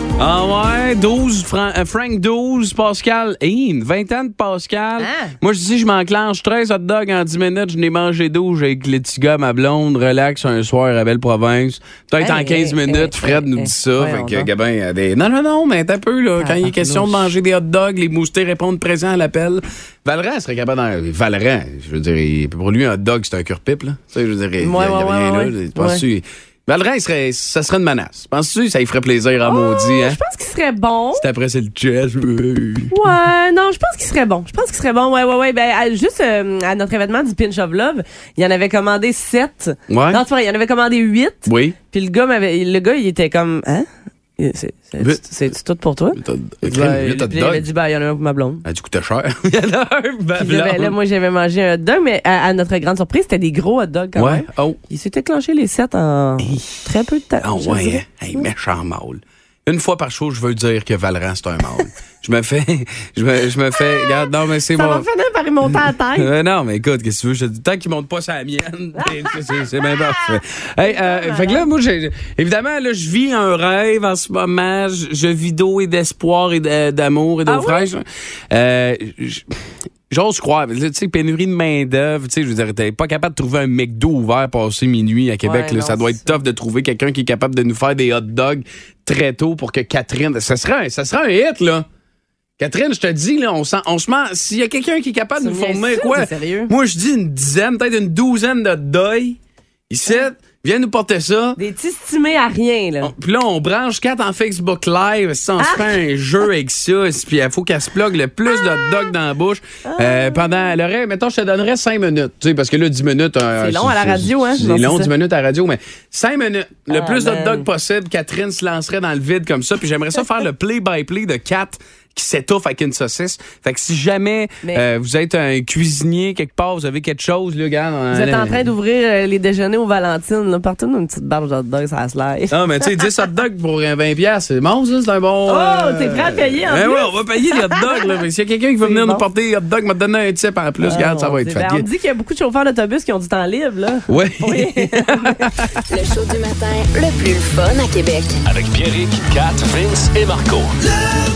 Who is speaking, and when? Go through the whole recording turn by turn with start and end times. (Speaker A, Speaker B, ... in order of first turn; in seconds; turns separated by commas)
Speaker A: 0.2-30.2, Speaker B: 5.0-5.3, Speaker B: 12.2-14.5, Speaker B: 16.4-17.3, Speaker B: 24.6-26.0, Speaker B: 29.5-31.3, Speaker A: 31.2-32.9, Speaker B: 32.9-43.9, Speaker A: 39.9-40.2, Speaker A: 41.5-41.8, Speaker B: 44.4-48.6, Speaker A: 46.1-47.7, Speaker A: 48.6-51.0, Speaker B: 50.4-58.5, Speaker A: 54.2-54.8, Speaker A: 56.4-56.7, Speaker A: 57.4-65.1, Speaker B: 63.8-66.3, Speaker A: 65.7-79.5, Speaker B: 69.0-71.7, Speaker B: 77.5-77.9, Speaker A: 80.1-91.9, Speaker B: 85.4-86.3, Speaker A: 92.6-101.6, Speaker B: 95.4-96.7, Speaker B: 101.6-103.1, Speaker A: 103.0-128.7, Speaker B: 105.6-106.0, Speaker B: 108.7-109.0, Speaker B: 109.8-110.7, Speaker B: 113.6-115.1, Speaker B: 116.9-117.7, Speaker B: 128.1-132.6, Speaker A: 132.5-141.9, Speaker B: 135.5-138.1, Speaker B: 138.8-139.3, Speaker B: 140.8-145.5, Speaker A: 144.1-145.9, Speaker C: 145.9-148.4, Speaker D: 148.4-150.7